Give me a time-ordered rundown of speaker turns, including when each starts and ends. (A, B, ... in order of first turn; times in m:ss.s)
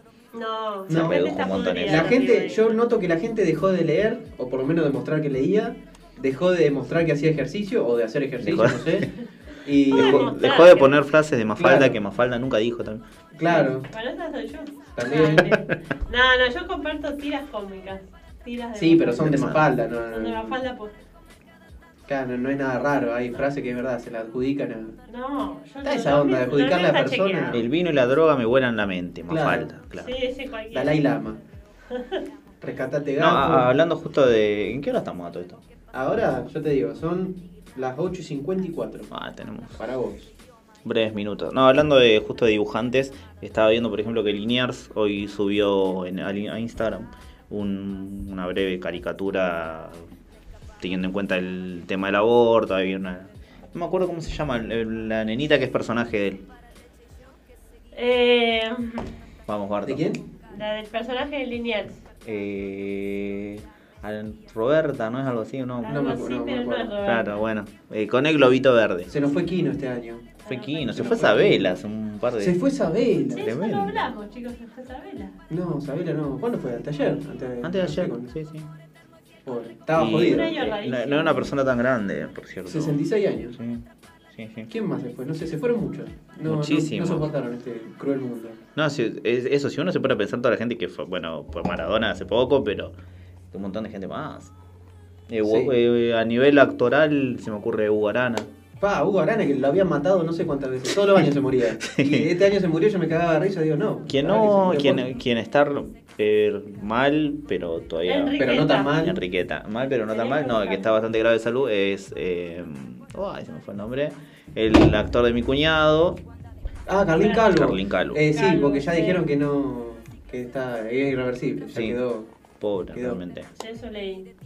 0:00.3-0:02.8 A
0:00.9-0:09.1 B
0:00.9-0:02.2 C
0:08.4-0:09.1 C
0:09.6-0:10.3 B
0:09.9-0:11.0 A
0:09.9-0:13.0 C
0:11.6-0:12.0 B
0:13.3-0:13.9 B
0:13.5-0:19.3 A
0:15.0-0:15.5 B
0:18.8-0:20.6 B
0:19.2-0:19.7 C
0:20.1-0:20.9 A
0:22.1-0:25.0 B
0:25.1-0:27.6 A
0:25.8-0:27.6 B
0:27.5-0:30.2 C
0:29.3-0:29.7 B
0:30.0-0:31.0 A
0:30.7-0:31.4 B
0:31.9-0:32.2 A
0:32.6-0:33.7 B
0:33.2-0:35.6 C
0:35.9-0:39.1 B
0:39.1-0:39.8 C
0:39.8-0:40.3 B
0:40.8-0:50.0 C
0:50.8-0:56.4 C
0:57.9-0:59.1 A
0:59.5-1:00.1 C
0:59.8-1:00.2 B
1:00.4-1:02.0 A
1:02.2-1:06.1 C
1:05.8-1:07.0 B
1:05.8-1:07.3 A
1:07.0-1:09.1 C
1:09.1-1:10.4 B
1:10.5-1:10.9 A
1:10.5-1:12.6 C
1:10.9-1:11.8 B
1:12.4-1:13.5 B
1:13.3-1:15.4 A
1:13.4-1:14.1 C
1:15.5-1:18.3 B
1:17.6-1:18.7 C
1:19.5-1:20.8 B
1:19.9-1:23.0 C
1:20.1-1:21.5 A
1:22.7-1:23.6 B
1:23.5-1:24.7 C
1:24.7-1:28.6 B
1:26.5-1:27.3 C
1:28.8-1:33.0 C
1:33.5-1:34.5 C
1:35.3-1:38.5 C
1:35.4-1:35.7 B
1:38.8-1:45.0 B
1:41.8-1:42.3 C
1:44.1-1:48.4 C
1:48.1-1:48.9 A
1:48.4-1:49.2 B
1:49.0-1:56.2 C
1:50.1-1:50.9 A
1:56.9-2:02.3 B
1:57.2-1:57.6 A
1:57.5-1:58.2 C
1:58.3-1:59.2 A
2:01.7-2:02.0 C
2:02.6-2:03.5 C
2:02.9-2:03.2 B
2:03.6-2:04.3 A